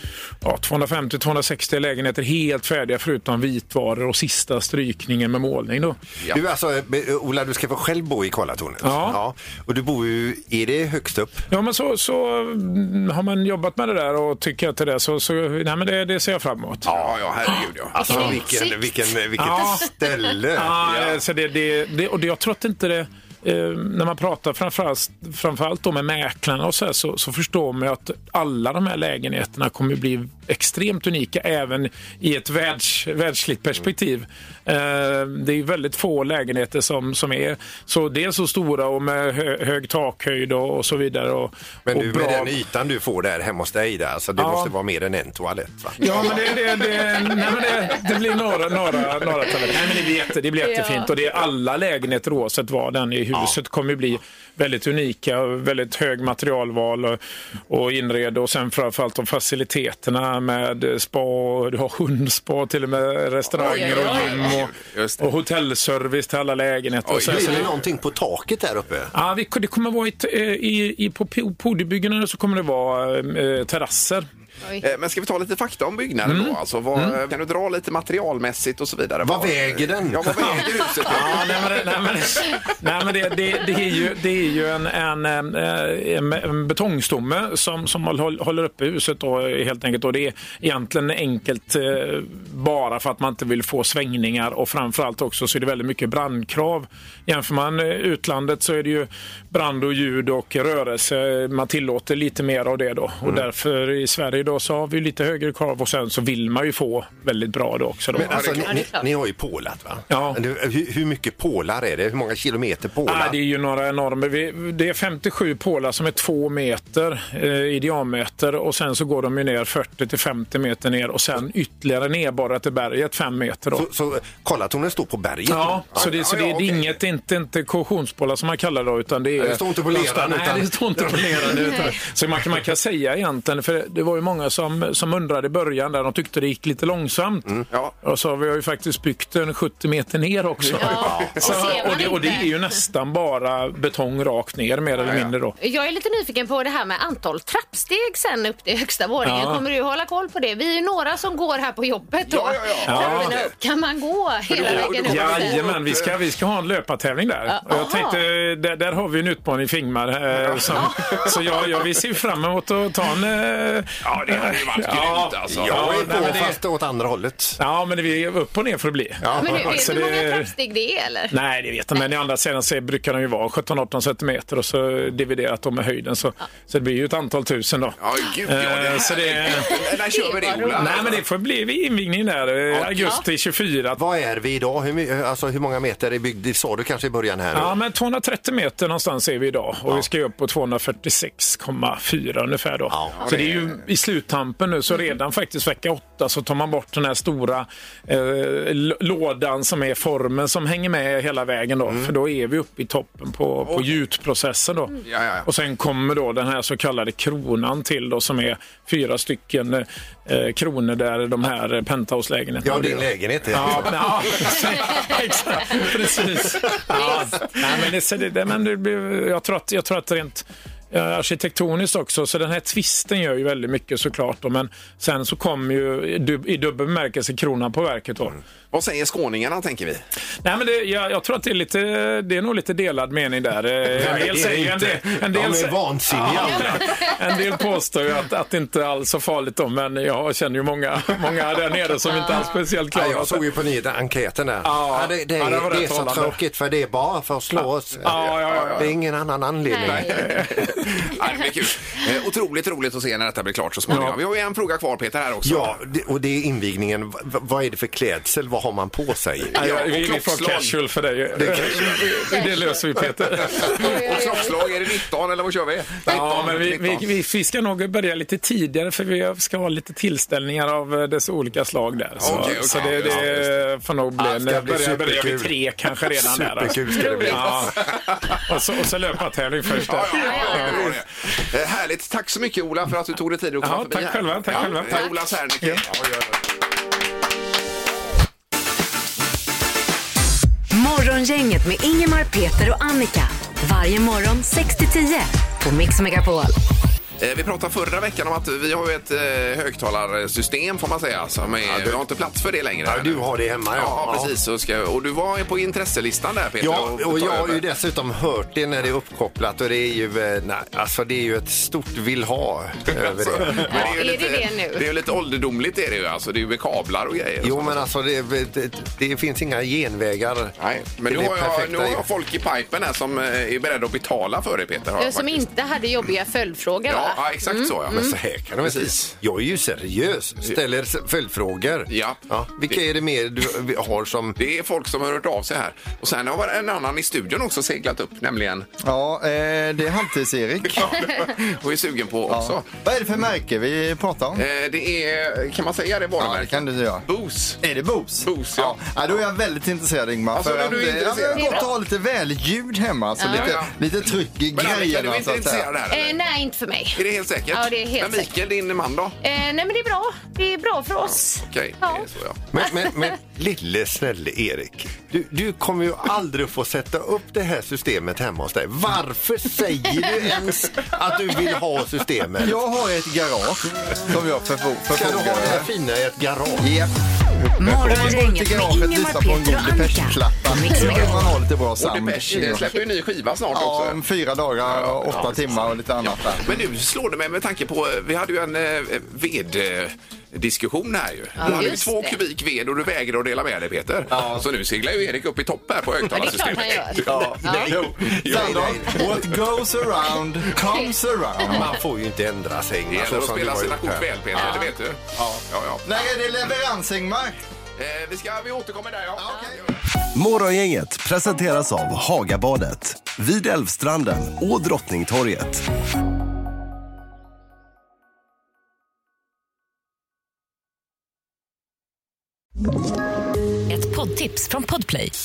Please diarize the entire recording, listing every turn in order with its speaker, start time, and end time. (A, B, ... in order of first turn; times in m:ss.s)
0:00.4-0:06.0 A
0:06.3-0:11.5 B
0:08.8-0:09.2 A
0:11.5-0:16.9 A
0:16.9-0:20.8 B
0:16.9-0:18.2 C
0:18.0-0:18.8 D
0:18.1-0:18.4 A
0:19.4-0:19.9 A
0:20.6-0:42.6 A
0:20.8-0:21.2 C
0:41.9-0:46.5 B
0:44.4-0:44.7 A
0:46.0-1:07.7 A
0:50.6-0:51.1 D
1:03.5-1:05.2 C
1:03.6-1:04.3 D
1:07.0-1:07.7 C
1:07.3-1:09.1 B
1:09.1-1:14.3 A
1:14.8-1:21.8 C
1:16.2-1:17.2 A
1:19.2-1:20.8 B
1:21.0-1:48.6 A
1:48.1-1:53.4 B
1:48.2-1:49.1 D
1:50.1-1:50.4 A
1:53.1-2:03.9 A
2:03.7-2:06.2 B
2:05.5-2:25.6 A
2:06.0-2:06.8 C
2:09.4-2:11.6 B
2:20.8-2:22.5 D
2:20.9-2:21.9 B
2:25.0-2:25.3 C
2:25.6-2:35.6 D
2:29.2-2:29.6 A
2:32.2-2:33.5 C
2:32.8-2:33.4 A
2:34.6-2:46.6 A
2:34.6-2:36.0 C
2:37.5-2:38.2 D
2:44.0-2:46.1 C
2:45.0-2:47.6 B
2:47.6-2:50.5 A
2:49.2-2:50.0 B
2:49.3-2:51.3 D
2:51.3-2:59.8 A
2:58.0-3:01.2 C
2:59.6-3:00.8 D
3:00.7-3:04.0 A
3:02.7-3:03.2 C
3:04.0-3:07.8 B
3:07.5-3:48.4 A
3:12.9-3:13.3 B
3:13.2-3:13.6 C
3:21.8-3:22.1 B
3:23.6-3:24.0 C
3:25.0-3:25.5 C
3:32.6-3:34.6 B
3:36.9-3:37.2 B
3:48.7-3:50.0 C
3:50.4-4:03.4 A
3:53.9-3:57.0 B
4:02.1-4:02.5 D
4:02.9-4:10.4 B
4:04.6-4:06.4 A
4:07.5-4:08.9 A
4:08.0-4:08.9 C
4:09.7-4:10.3 D
4:09.9-4:15.8 C
4:13.9-4:14.2 A
4:15.4-4:19.6 B
4:19.6-4:20.8 C
4:19.6-4:24.0 A
4:21.3-4:22.2 C
4:21.4-4:22.1 B
4:23.5-4:27.1 C
4:23.7-4:24.6 D
4:26.1-4:41.0 A
4:32.2-4:33.5 C
4:32.2-4:33.3 B
4:34.2-4:37.8 B
4:36.8-4:37.5 D
4:37.7-4:38.4 C
4:39.8-4:46.4 C
4:40.1-4:40.9 D
4:43.6-4:45.1 A
4:44.6-4:45.2 D
4:50.7-4:56.6 E
4:57.2-5:07.6 C
5:01.6-5:02.0 B
5:02.8-5:04.4 B
5:06.6-5:14.0 B
5:12.9-5:17.8 C
5:13.6-5:14.8 D
5:17.4-5:22.0 B
5:20.6-5:25.5 C
5:25.0-5:28.2 D
5:26.9-5:28.0 C
5:27.9-5:34.4 B
5:28.6-5:29.1 C
5:31.9-5:32.8 C
5:34.4-5:38.7 C
5:38.8-5:41.3 F
5:40.8-5:42.7 C
5:42.3-5:44.4 F
5:44.4-5:47.6 C
5:46.2-5:47.0 F
5:47.6-5:55.7 F
5:48.2-5:48.8 C
5:50.3-5:51.7 C
5:51.3-5:51.7 D
5:53.2-5:53.5 D
5:53.3-5:53.8 C
5:54.5-5:56.2 C
5:55.9-5:58.3 D
5:57.0-5:59.2 C
5:59.2-6:02.1 D
6:01.2-6:02.4 C
6:02.5-6:12.6 B
6:12.4-6:15.7 F
6:14.9-6:16.7 B
6:16.6-6:16.9 F
6:17.4-6:22.7 F
6:17.6-6:21.4 E
6:20.9-6:21.2 C
6:21.8-6:24.0 C
6:22.5-6:22.8 D
6:23.5-6:26.5 F
6:24.6-6:38.8 C
6:31.4-6:32.2 D
6:34.1-6:34.4 F
6:36.1-6:37.8 D
6:37.1-6:41.8 F
6:37.4-6:39.3 B
6:41.4-6:44.1 B
6:42.9-6:45.8 C
6:45.2-6:47.4 F
6:47.8-6:49.8 C
6:49.2-6:49.6 F
6:50.2-6:55.6 G
7:03.7-7:05.1 E